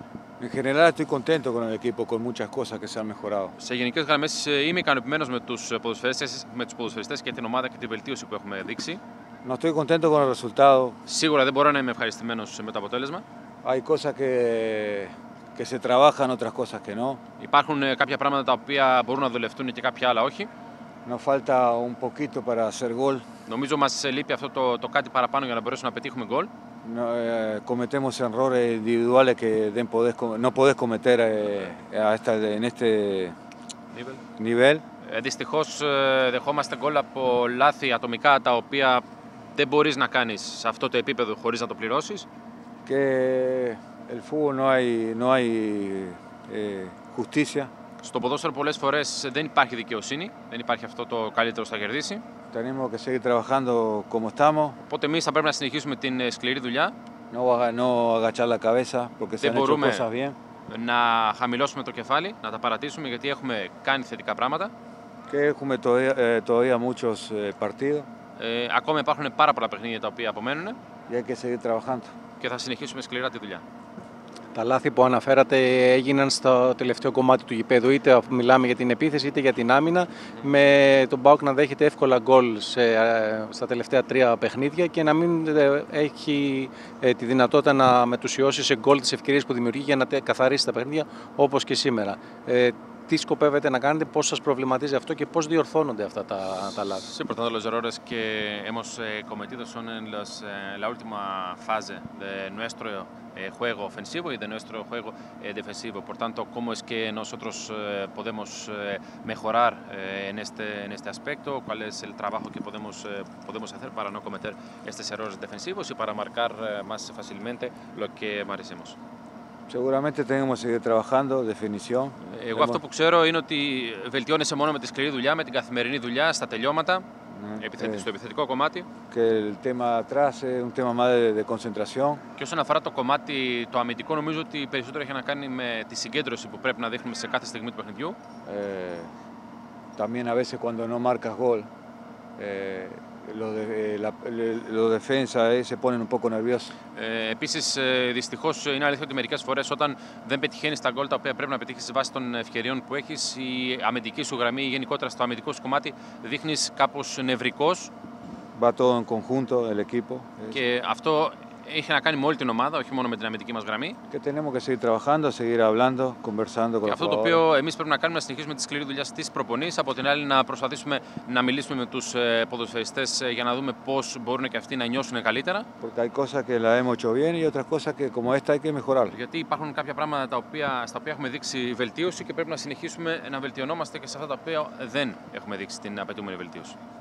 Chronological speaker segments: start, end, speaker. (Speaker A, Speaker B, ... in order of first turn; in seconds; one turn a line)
Speaker A: 0.4-3.5
Speaker B: 3.6-9.0
Speaker A: 9.4-11.0
Speaker B: 11.1-13.2
Speaker A: 13.6-17.2
Speaker B: 17.4-20.5
Speaker A: 21.1-23.2
Speaker B: 23.5-26.5
Speaker A: 26.8-33.4
Speaker B: 33.9-34.2
Speaker A: 34.4-34.8
Speaker B: 35.0-42.3
Speaker A: 42.9-47.7
Speaker B: 48.0-52.2
Speaker A: 52.5-54.8
Speaker B: 54.8-56.9
Speaker A: 57.3-60.4
Speaker B: 59.4-60.1
Speaker B: 60.7-64.7
Speaker A: 65.3-68.1
Speaker B: 68.4-70.8
Speaker A: 71.1-72.1
Speaker B: 72.4-73.6
Speaker C: 74.5-97.1
Speaker B: 97.0-119.0
Speaker A: 119.7-122.8
Speaker B: 122.3-127.1
Speaker A: 127.3-128.1
Speaker B: 127.6-128.9
Speaker A: 129.1-132.2
Speaker B: 132.4-138.2
Speaker A: 138.4-139.1
Speaker A: 140.0-141.7
Speaker A: 142.4-146.7
Speaker B: 146.9-157.9
Speaker A: 158.6-160.6
Speaker B: 160.5-164.0
Speaker A: 164.1-167.4
Speaker B: 166.8-175.7
Speaker A: 175.8-179.2
Speaker B: 179.1-186.8